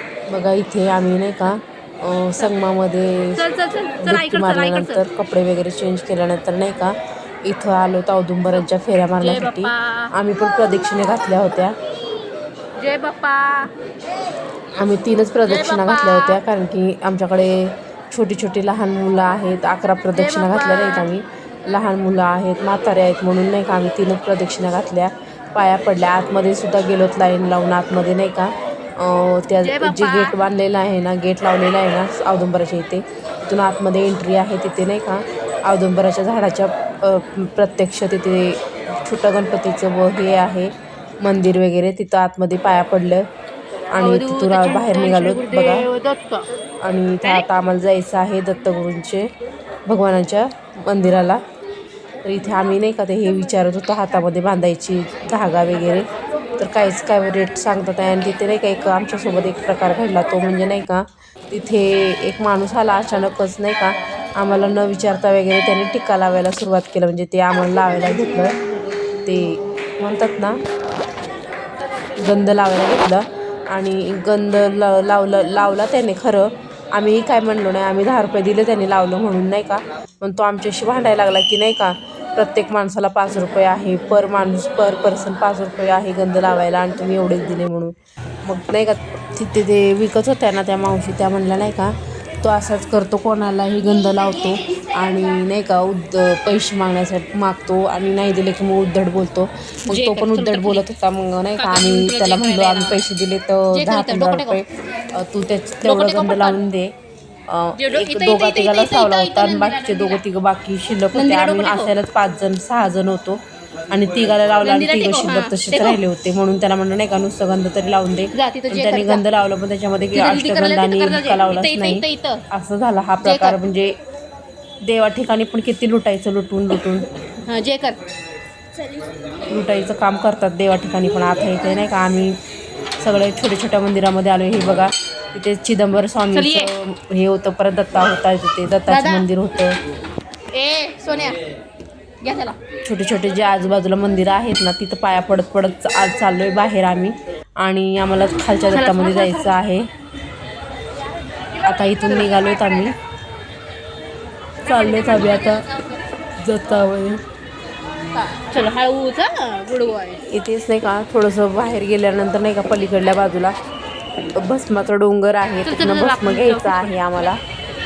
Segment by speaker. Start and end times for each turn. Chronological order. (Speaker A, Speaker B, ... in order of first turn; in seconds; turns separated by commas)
Speaker A: 0.3-3.4, Speaker B: 3.4-5.0, Speaker A: 4.0-11.8, Speaker B: 9.2-10.1, Speaker B: 12.8-13.7, Speaker A: 14.7-43.3, Speaker B: 15.4-16.4, Speaker B: 20.1-21.1, Speaker B: 29.6-30.4, Speaker A: 43.9-45.9, Speaker B: 44.0-46.5, Speaker A: 46.8-49.3, Speaker B: 47.2-47.5, Speaker A: 49.9-51.4, Speaker A: 52.2-56.0, Speaker A: 56.6-68.6, Speaker A: 69.2-70.6, Speaker A: 72.1-87.9, Speaker A: 88.4-106.9, Speaker B: 99.9-100.8, Speaker B: 101.6-103.0, Speaker B: 103.7-104.6, Speaker B: 105.8-106.6, Speaker A: 107.5-124.0, Speaker B: 107.8-110.2, Speaker B: 111.1-111.9, Speaker B: 114.6-116.0, Speaker B: 118.3-119.2, Speaker B: 120.1-122.4, Speaker B: 123.2-123.6, Speaker A: 124.8-127.1, Speaker B: 127.4-128.0, Speaker A: 129.5-132.4, Speaker A: 133.0-139.8, Speaker B: 136.3-136.7, Speaker B: 138.9-139.3, Speaker B: 140.5-141.4, Speaker B: 142.2-142.6, Speaker A: 142.8-149.9, Speaker B: 148.7-149.6, Speaker B: 151.5-152.9, Speaker A: 151.6-152.9, Speaker A: 154.6-155.7, Speaker B: 154.6-155.8, Speaker A: 156.4-157.2, Speaker B: 158.1-160.2, Speaker A: 160.3-163.6, Speaker A: 164.3-167.4, Speaker B: 165.6-167.3